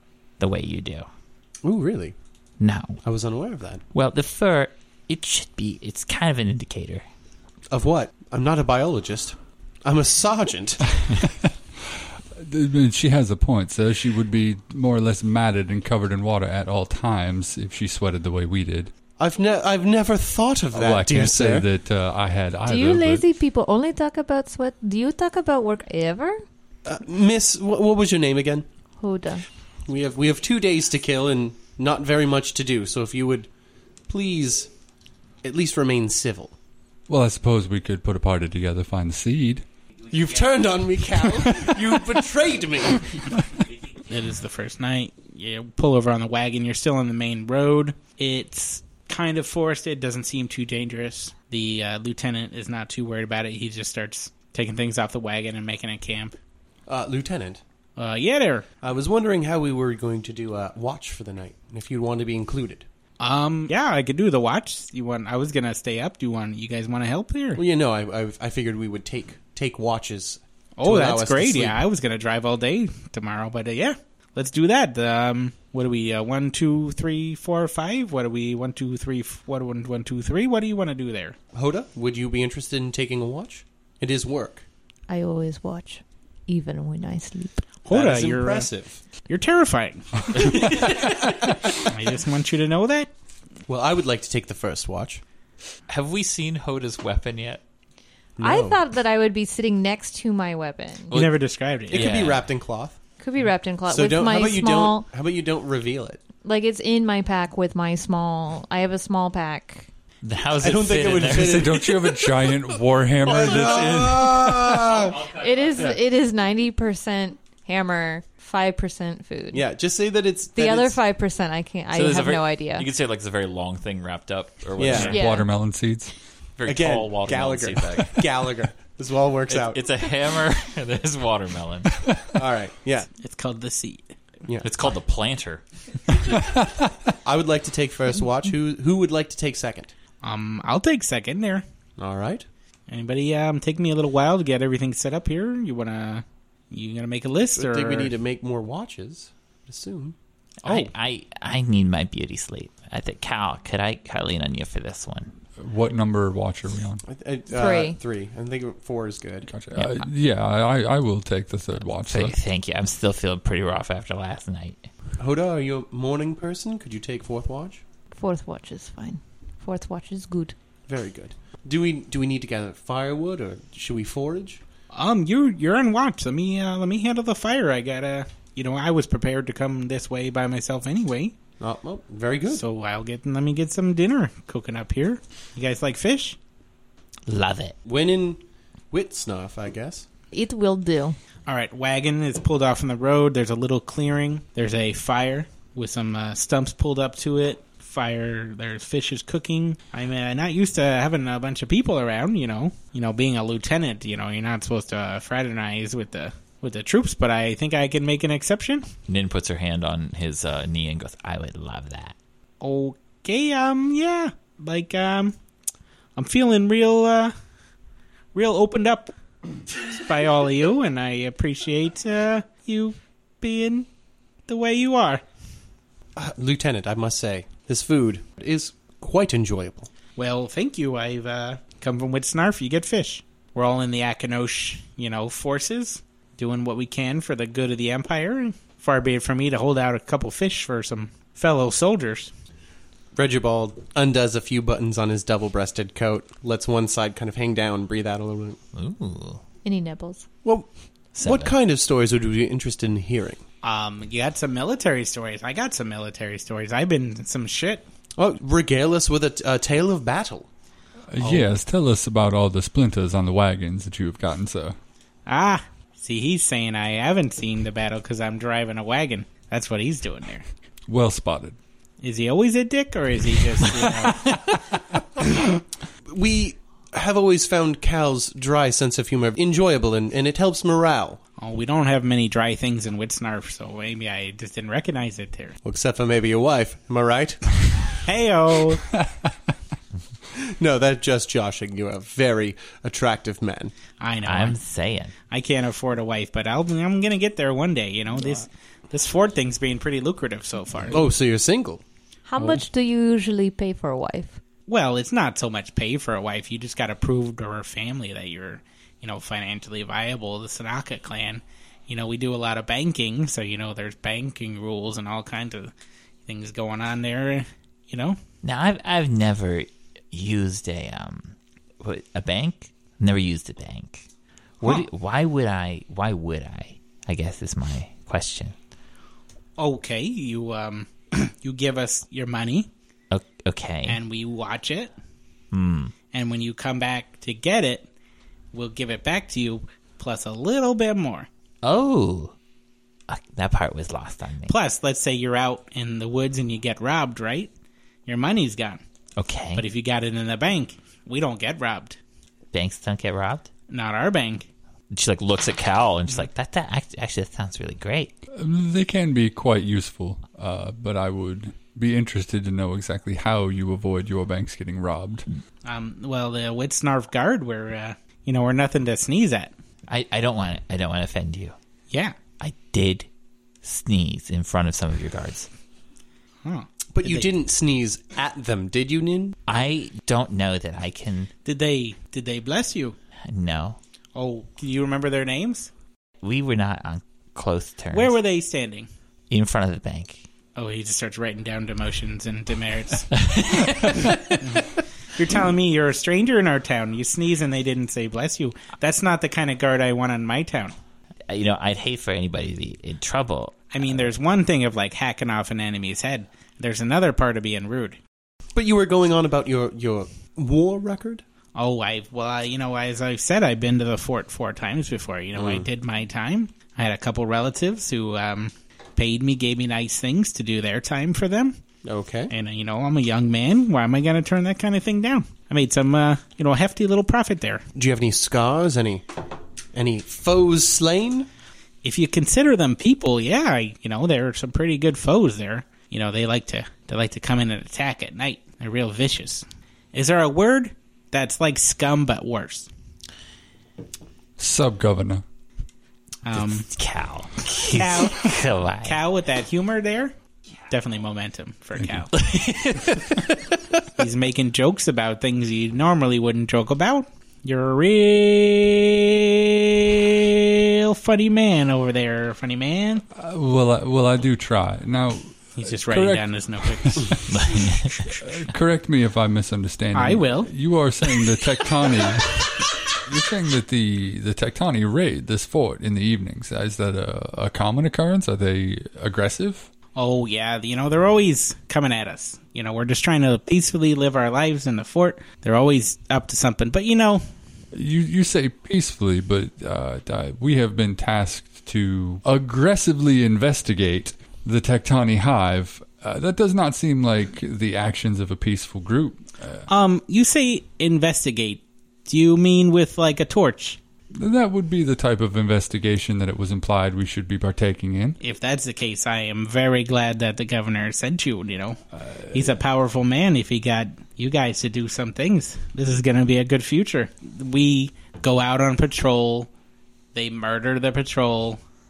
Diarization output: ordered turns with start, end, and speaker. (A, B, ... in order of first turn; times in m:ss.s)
0:00.4-0:01.1 A
0:01.6-0:02.1 B
0:02.6-0:03.0 A
0:03.0-0:03.8 B
0:03.9-0:07.0 A
0:07.7-0:11.0 B
0:11.0-0:18.9 C
0:19.2-0:21.7 B
0:20.7-0:23.2 C
0:22.6-0:26.4 D
0:26.9-0:28.6 B
0:29.0-0:29.4 D
0:29.9-0:33.5 B
0:34.1-0:34.7 B
0:35.4-0:36.6 B
0:37.1-0:39.6 C
0:40.1-0:43.2 B
0:44.1-0:56.3 E
0:56.9-0:57.6 B
0:58.0-0:58.7 E
0:58.8-1:02.8 B
1:03.2-1:07.6 E
1:07.6-1:11.8 B
1:10.8-1:21.4 E
1:21.5-1:24.6 B
1:25.1-1:27.6 D
1:27.8-1:28.7 E
1:27.9-1:29.0 B
1:29.3-1:33.1 E
1:33.7-1:35.2 B
1:35.9-1:37.6 A
1:38.4-1:38.8 B
1:38.4-1:41.2 D
1:41.1-1:42.1 E
1:41.9-1:42.4 A
1:41.9-1:43.0 B
1:43.2-1:45.1 D
1:43.9-1:46.2 B
1:46.4-1:49.9 D
1:50.2-1:51.7 A
1:50.6-1:52.5 B
1:51.2-1:54.8 C
1:53.2-1:55.3 B
1:55.3-1:59.6 D
1:59.5-2:01.0 B
2:00.6-2:02.9 D
2:01.9-2:05.2 A
2:04.8-2:05.2 B
2:05.0-2:06.1 C
2:05.1-2:05.5 D
2:06.6-2:08.3 A
2:06.6-2:09.8 B
2:09.5-2:11.9 A
2:12.3-2:13.1 B
2:13.2-2:14.1 E
2:14.6-2:15.6 A
2:17.2-2:19.9 B
2:20.2-2:21.6 E
2:22.0-2:22.4 B
2:22.9-2:28.1 E
2:27.6-2:30.1 B
2:30.6-2:35.3 A
2:35.6-2:37.0 C
2:37.1-2:39.5 B
2:37.5-2:38.0 D
2:39.5-2:42.4 C
2:39.7-2:40.0 A
2:41.8-2:44.8 A
2:45.2-2:47.8 B
2:48.1-2:50.5 D
2:50.9-2:54.6 B
2:54.9-3:01.3 E
3:01.6-3:02.6 B
3:02.5-3:06.4 E
3:07.3-3:07.8 A
3:07.8-3:08.4 B
3:08.9-3:10.1 B
3:10.3-3:11.2 D
3:11.5-3:28.9 E
3:29.1-3:32.1 A
3:32.6-3:35.3 E
3:36.2-3:37.3 E
3:38.3-3:39.1 E
3:39.8-3:43.9 E
3:44.5-3:45.2 E
3:46.2-3:49.9 B
3:50.2-4:02.3 E
4:03.1-4:08.6 B
4:08.7-4:09.4 A
4:09.6-4:10.3 D
4:11.1-4:11.5 A
4:11.2-4:13.4 B
4:13.6-4:17.8 E
4:18.2-4:20.5 B
4:21.1-4:24.8 C
4:21.2-4:21.5 E
4:25.3-4:30.4 E
4:30.9-4:31.6 C
4:32.0-4:34.5 E
4:34.1-4:34.6 C
4:36.1-4:41.2 B
4:41.4-4:45.6 E
4:45.6-4:47.6 B
4:48.1-4:48.8 E
4:50.3-4:53.7 B
4:54.0-4:54.6 E
4:54.2-4:55.1 A
4:55.3-5:01.0 E
5:00.9-5:01.8 B
5:02.3-5:04.4 D
5:04.7-5:15.7 E
5:16.3-5:18.2 E
5:18.4-5:24.1 A
5:24.6-5:28.6 A
5:29.6-5:32.7 E
5:33.1-5:34.0 A
5:33.9-5:34.9 E
5:35.5-5:35.9 A
5:36.1-5:37.9 E
5:38.5-5:41.3 E
5:41.6-5:42.3 A
5:43.1-5:44.5 A
5:44.5-5:47.5 E
5:48.1-5:48.8 E
5:49.2-5:49.6 A
5:49.6-5:52.0 E
5:52.5-5:53.5 A
5:53.7-5:54.5 E
5:54.9-5:58.1 A
5:58.4-6:05.2 C
6:05.6-6:09.5 E
6:09.9-6:11.6 A
6:11.9-6:12.2 E
6:12.4-6:13.1 A
6:13.6-6:15.5 A
6:16.4-6:17.3 E
6:16.9-6:19.4 B
6:19.5-6:21.3 A
6:21.4-6:23.0 E
6:23.2-6:23.8 A
6:24.2-6:25.7 E
6:26.2-6:28.2 A
6:27.9-6:28.9 E
6:29.3-6:30.2 A
6:30.6-6:33.3 E
6:33.2-6:34.2 A
6:34.4-6:40.8 E
6:41.3-6:44.0 A
6:43.7-6:48.0 E
6:48.5-6:51.2 B
6:51.5-7:01.6 E
6:55.4-6:55.6 B
7:01.8-7:02.3 B
7:02.3-7:07.6 E
7:07.8-7:09.0 B
7:09.7-7:11.3 B
7:11.8-7:22.7 E
7:24.4-7:25.2 C
7:26.2-7:26.6 E
7:26.3-7:29.0 A
7:27.7-7:30.1 E
7:30.7-7:32.1 E
7:32.1-7:33.2 A
7:34.0-7:43.0 E
7:43.2-7:52.5 C
7:45.6-7:47.2 E
7:47.3-7:48.0 A
7:49.9-7:50.5 E
7:53.1-7:59.7 C
7:59.9-8:07.2 E
8:07.7-8:19.7 C
8:19.7-8:23.8 E
8:24.1-8:28.2 C
8:28.2-8:39.5 E
8:32.0-8:32.5 C
8:40.1-8:41.6 E